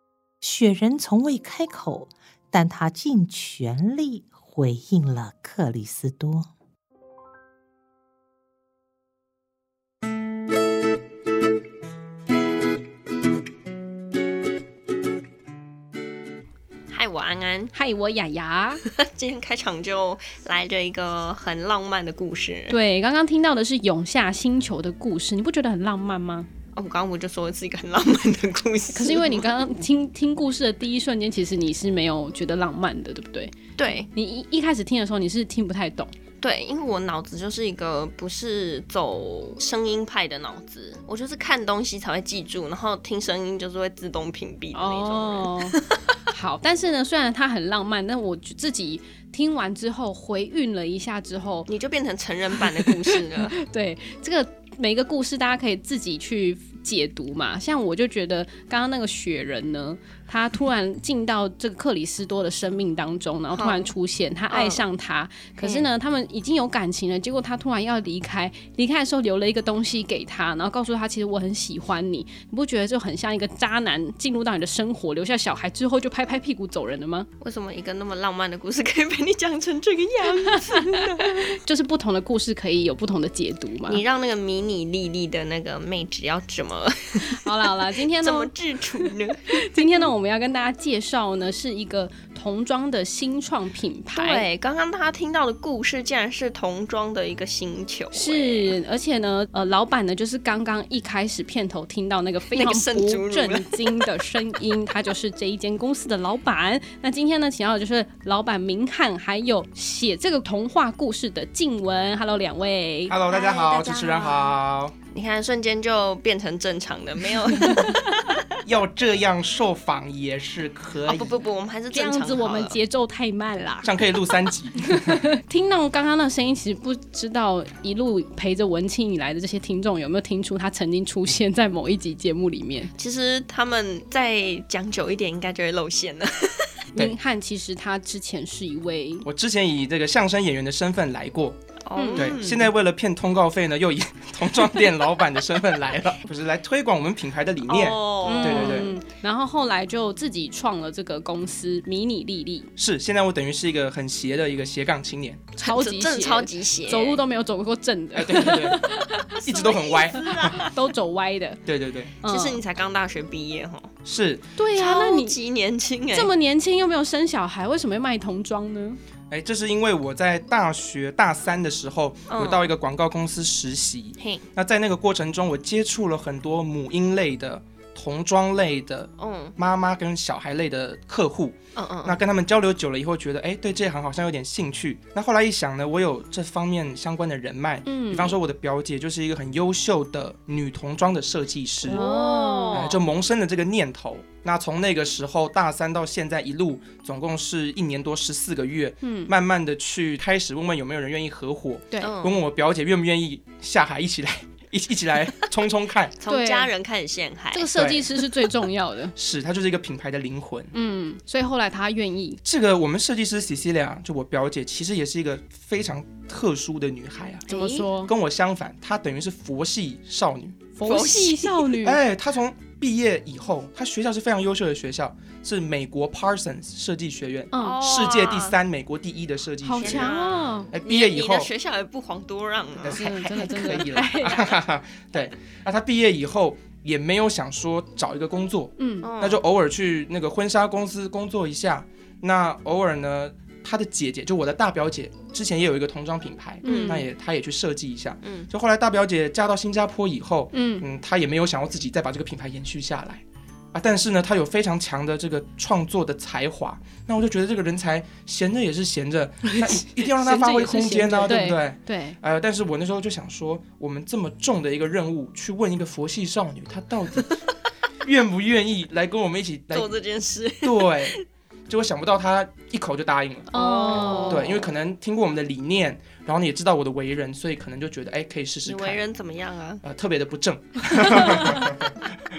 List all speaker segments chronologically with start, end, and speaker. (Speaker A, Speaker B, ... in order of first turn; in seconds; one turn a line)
Speaker A: 0.4-6.5
Speaker B: 16.9-17.7
Speaker C: 17.7-18.8
Speaker B: 18.9-22.8
Speaker C: 22.7-26.5
Speaker B: 26.7-29.5
Speaker C: 28.9-33.5
Speaker B: 33.8-34.1
Speaker C: 34.1-36.1
Speaker B: 36.4-46.0
Speaker C: 44.7-45.8
Speaker C: 46.3-51.7
Speaker B: 51.7-53.5
Speaker C: 52.6-77.3
Speaker B: 63.5-63.9
Speaker B: 64.5-64.8
Speaker B: 65.6-65.9
Speaker B: 77.4-81.6
Speaker C: 80.3-84.0
Speaker B: 83.8-90.1
Speaker C: 87.2-94.5
Speaker B: 94.1-98.7
Speaker C: 98.1-113.2
Speaker B: 102.5-104.0
Speaker D: 113.1-114.9
Speaker B: 113.3-114.5
Speaker B: 115.1-118.4
Speaker C: 117.5-118.0
Speaker D: 118.6-121.4
Speaker B: 121.0-122.8
Speaker C: 121.9-124.0
Speaker D: 123.8-125.3
Speaker C: 124.8-132.9
Speaker B: 133.0-136.8
Speaker C: 136.9-139.2
Speaker D: 139.2-141.6
Speaker B: 141.8-142.7
Speaker C: 141.9-142.4
Speaker D: 142.2-148.9
Speaker B: 147.7-148.9
Speaker C: 148.2-152.7
Speaker D: 152.8-155.5
Speaker C: 155.6-161.6
Speaker B: 155.6-157.2
Speaker D: 158.1-158.9
Speaker D: 159.4-160.6
Speaker B: 159.5-160.7
Speaker D: 161.7-162.1
Speaker C: 162.2-162.6
Speaker B: 162.2-163.9
Speaker D: 164.0-164.4
Speaker C: 164.6-165.3
Speaker B: 164.7-166.3
Speaker C: 166.1-169.0
Speaker D: 169.3-192.0
Speaker B: 172.3-172.7
Speaker B: 174.2-174.5
Speaker B: 179.2-179.5
Speaker B: 181.8-182.2
Speaker C: 187.8-188.4
Speaker B: 191.9-193.0
Speaker C: 191.9-192.9
Speaker D: 192.7-206.2
Speaker C: 199.0-199.3
Speaker B: 202.0-202.4
Speaker B: 206.2-207.7
Speaker C: 206.2-206.7
Speaker C: 207.5-209.1
Speaker D: 207.7-208.1
Speaker D: 209.2-210.7
Speaker C: 210.7-212.4
Speaker D: 212.4-220.6
Speaker C: 217.5-218.1
Speaker B: 217.5-217.8
Speaker C: 220.8-222.0
Speaker B: 220.8-221.8
Speaker D: 221.8-230.1
Speaker C: 227.5-227.8
Speaker B: 227.6-228.6
Speaker C: 229.6-230.7
Speaker B: 229.8-233.8
Speaker D: 230.7-231.5
Speaker D: 232.8-253.2
Speaker C: 232.9-234.5
Speaker C: 238.8-239.1
Speaker B: 239.0-239.4
Speaker C: 246.6-247.1
Speaker B: 246.6-247.1
Speaker B: 248.2-248.5
Speaker C: 250.5-250.8
Speaker D: 253.7-267.4
Speaker C: 259.9-262.2
Speaker D: 268.0-269.9
Speaker B: 269.7-271.2
Speaker D: 270.6-279.0
Speaker C: 273.5-274.6
Speaker B: 273.5-274.7
Speaker B: 278.6-279.8
Speaker D: 279.8-281.9
Speaker C: 280.9-281.8